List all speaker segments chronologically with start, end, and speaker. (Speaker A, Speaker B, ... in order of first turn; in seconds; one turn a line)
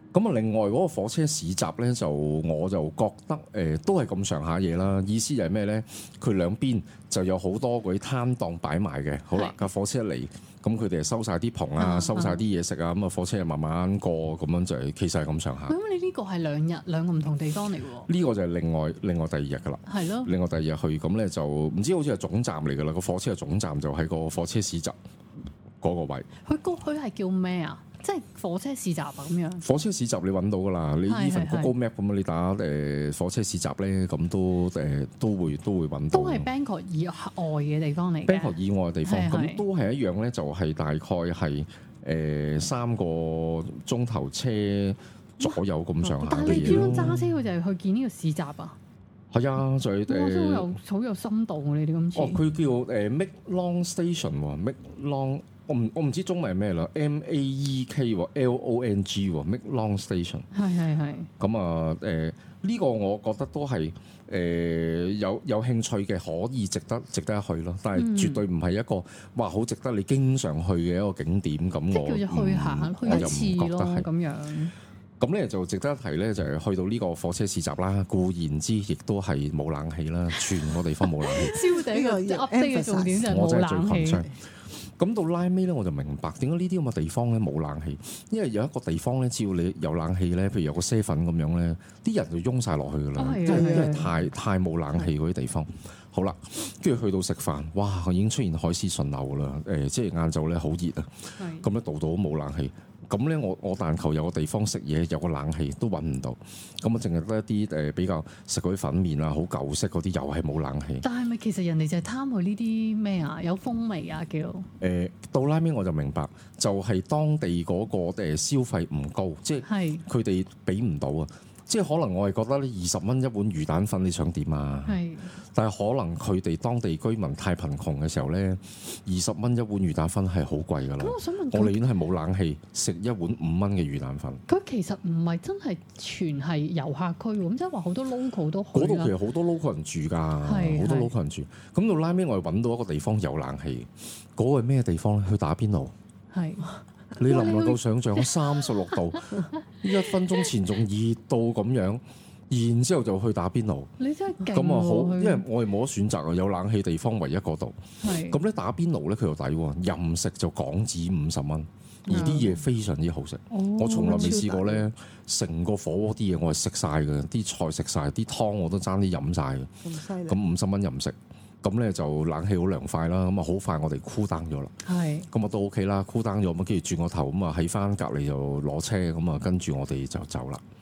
Speaker A: 0.1-15.7
Speaker B: 9.3-9.6
Speaker B: 11.8-12.4
Speaker B: 15.7-18.1
Speaker A: 18.1-25.0
Speaker B: 19.9-20.3
Speaker A: 25.8-26.3
Speaker B: 26.4-29.6
Speaker A: 29.6-36.5
Speaker B: 31.1-31.7
Speaker B: 36.1-39.6
Speaker A: 38.2-47.3
Speaker B: 45.4-48.8
Speaker C: 46.5-46.9
Speaker A: 49.3-50.8
Speaker B: 50.1-52.4
Speaker A: 52.1-60.5
Speaker B: 60.5-61.3
Speaker A: 61.4-74.1
Speaker B: 67.9-68.5
Speaker B: 71.9-74.7
Speaker A: 75.2-81.5
Speaker B: 80.7-84.3
Speaker C: 81.6-83.3
Speaker A: 83.2-111.0
Speaker B: 93.2-94.1
Speaker C: 93.4-94.1
Speaker B: 101.4-101.7
Speaker B: 111.0-114.7
Speaker A: 114.8-125.0
Speaker B: 119.7-120.0
Speaker B: 124.8-125.3
Speaker A: 125.5-134.4
Speaker B: 131.0-131.8
Speaker B: 134.5-139.1
Speaker A: 138.7-145.9
Speaker B: 140.4-141.1
Speaker B: 146.3-149.4
Speaker A: 147.2-153.9
Speaker B: 154.0-155.4
Speaker A: 154.5-169.7
Speaker B: 158.0-158.4
Speaker B: 162.1-162.6
Speaker B: 163.5-164.4
Speaker C: 163.9-164.9
Speaker C: 169.8-170.4
Speaker A: 170.3-174.7
Speaker B: 174.8-175.3
Speaker A: 175.3-180.6